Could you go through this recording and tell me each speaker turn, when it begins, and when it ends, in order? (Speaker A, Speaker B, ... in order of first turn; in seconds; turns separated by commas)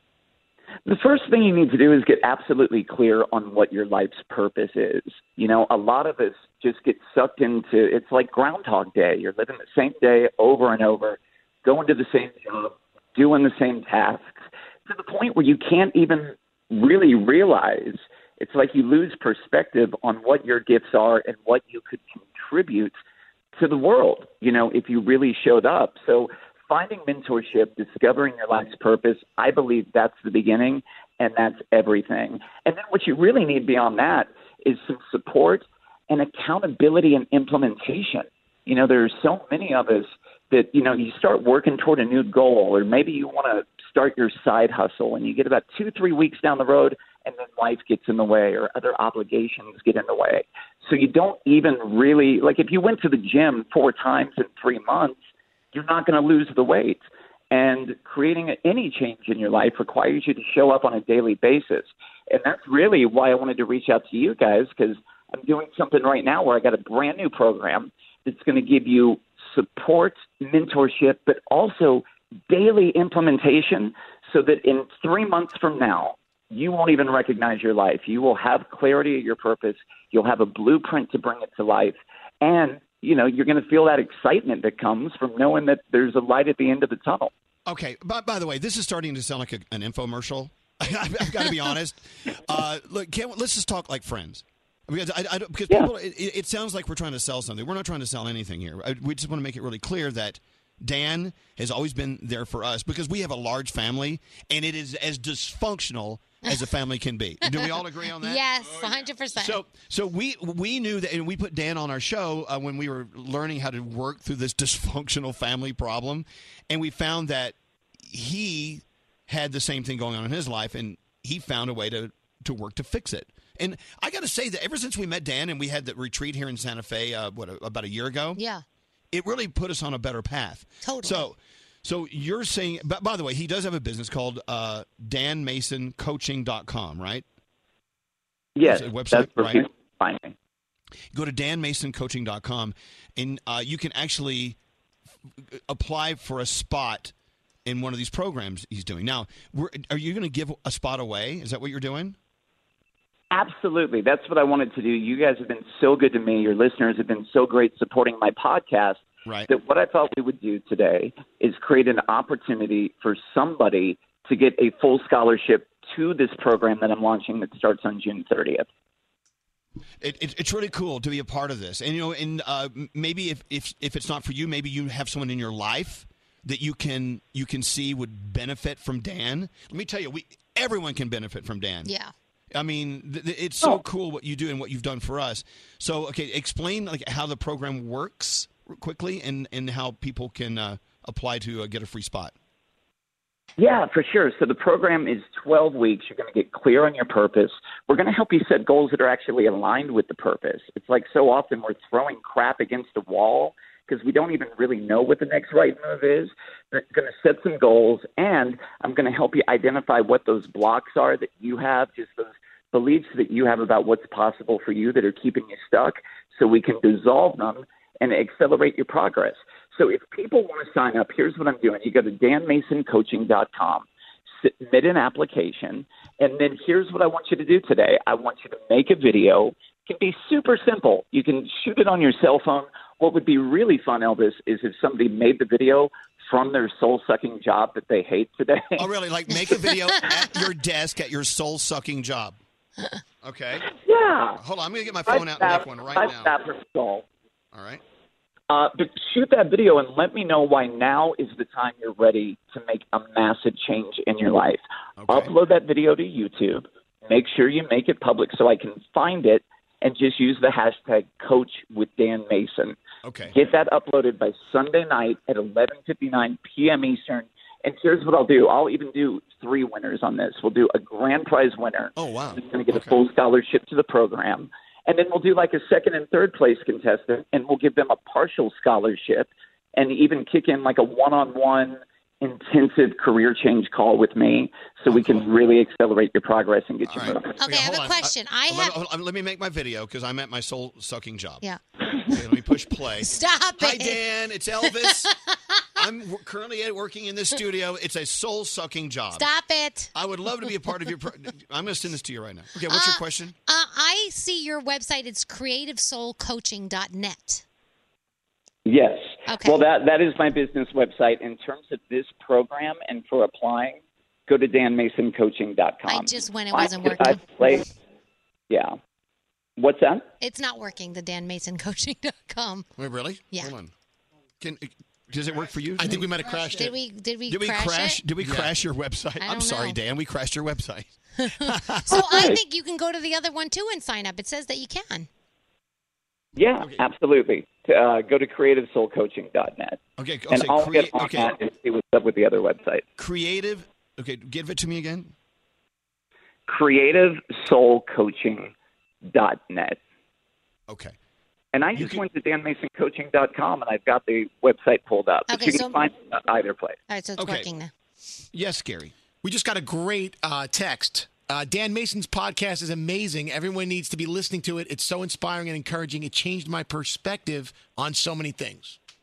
Speaker A: 0.8-22.9, Speaker A: 23.6-55.2, Speaker A: 55.7-87.3, Speaker B: 87.7-108.4, Speaker C: 107.5-109.6, Speaker B: 109.3-128.4, Speaker C: 128.3-128.6, Speaker B: 129.1-137.2, Speaker C: 130.8-131.2, Speaker A: 138.6-140.3, Speaker B: 138.6-139.6, Speaker B: 141.1-144.6, Speaker B: 145.5-147.1, Speaker B: 147.6-152.2, Speaker A: 153.3-168.7, Speaker B: 170.0-181.9, Speaker C: 181.8-182.1, Speaker B: 182.5-192.3, Speaker A: 193.6-223.9, Speaker A: 224.4-238.8, Speaker B: 238.8-242.4, Speaker C: 239.5-240.0, Speaker B: 243.2-243.7, Speaker A: 243.7-244.4, Speaker B: 244.4-246.3, Speaker A: 245.1-247.0, Speaker B: 247.5-247.8, Speaker A: 248.5-262.8, Speaker B: 255.0-255.3, Speaker B: 263.0-263.3, Speaker A: 263.3-287.3, Speaker B: 272.0-273.0, Speaker B: 284.9-285.3, Speaker B: 286.9-291.4, Speaker C: 287.4-288.8, Speaker B: 292.1-295.1, Speaker C: 293.0-294.0, Speaker C: 294.7-295.1, Speaker B: 295.8-299.3, Speaker C: 299.1-299.9, Speaker B: 299.9-303.3, Speaker C: 302.7-307.4, Speaker A: 308.6-317.6, Speaker C: 309.2-309.6, Speaker C: 315.9-317.2, Speaker A: 318.5-318.8, Speaker A: 319.6-320.1, Speaker C: 320.2-322.7, Speaker B: 322.8-323.7, Speaker B: 324.4-326.1, Speaker D: 325.8-326.7, Speaker C: 326.5-328.0, Speaker B: 327.3-332.4, Speaker C: 329.2-329.8, Speaker C: 331.2-335.1, Speaker A: 331.9-332.4, Speaker A: 336.4-339.8, Speaker B: 340.0-341.3, Speaker A: 340.3-342.8, Speaker B: 343.0-345.1, Speaker A: 346.5-348.5, Speaker A: 349.0-349.8, Speaker B: 350.7-350.9, Speaker A: 351.5-356.8, Speaker B: 351.8-352.0, Speaker C: 355.3-355.8, Speaker C: 356.9-357.7, Speaker B: 357.2-357.5, Speaker B: 358.3-358.9, Speaker D: 359.2-368.8